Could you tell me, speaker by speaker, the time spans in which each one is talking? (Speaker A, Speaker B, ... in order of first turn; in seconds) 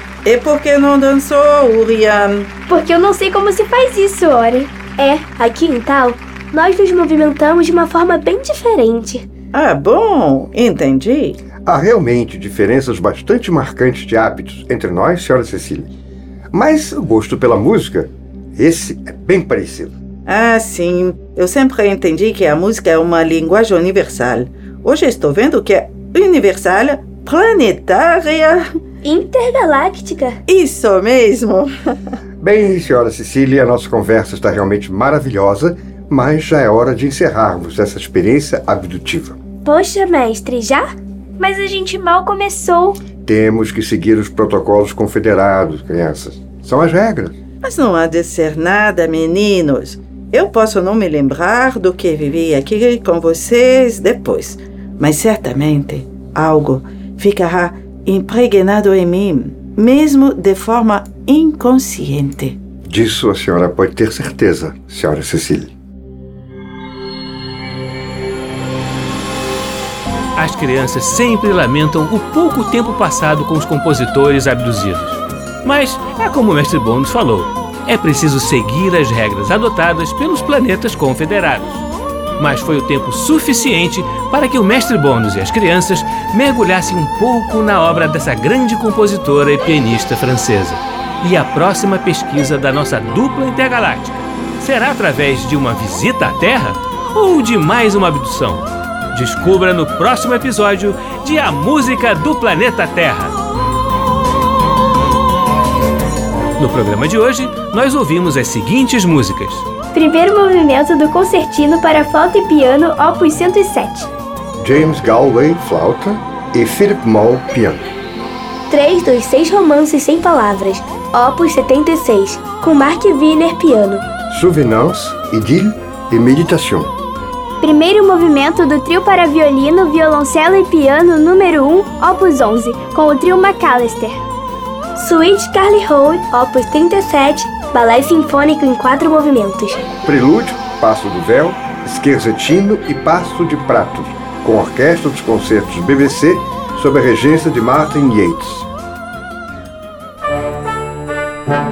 Speaker A: 0.2-2.5, 9.5-11.4, 20.2-28.7, 30.5-31.9, 47.6-62.6
Speaker B: 2.7-5.2, 41.4-43.0, 109.9-114.1, 127.6-134.2
Speaker C: 5.2-9.3, 29.0-30.4, 39.6-40.9, 118.7-124.1, 134.9-139.8
Speaker D: 11.6-15.9, 16.5-19.9, 32.4-39.4, 43.2-47.4, 62.9-65.7, 114.6-117.9, 124.3-126.9, 140.0-148.7
Speaker E: 70.4-81.9, 82.4-103.3, 106.6-109.6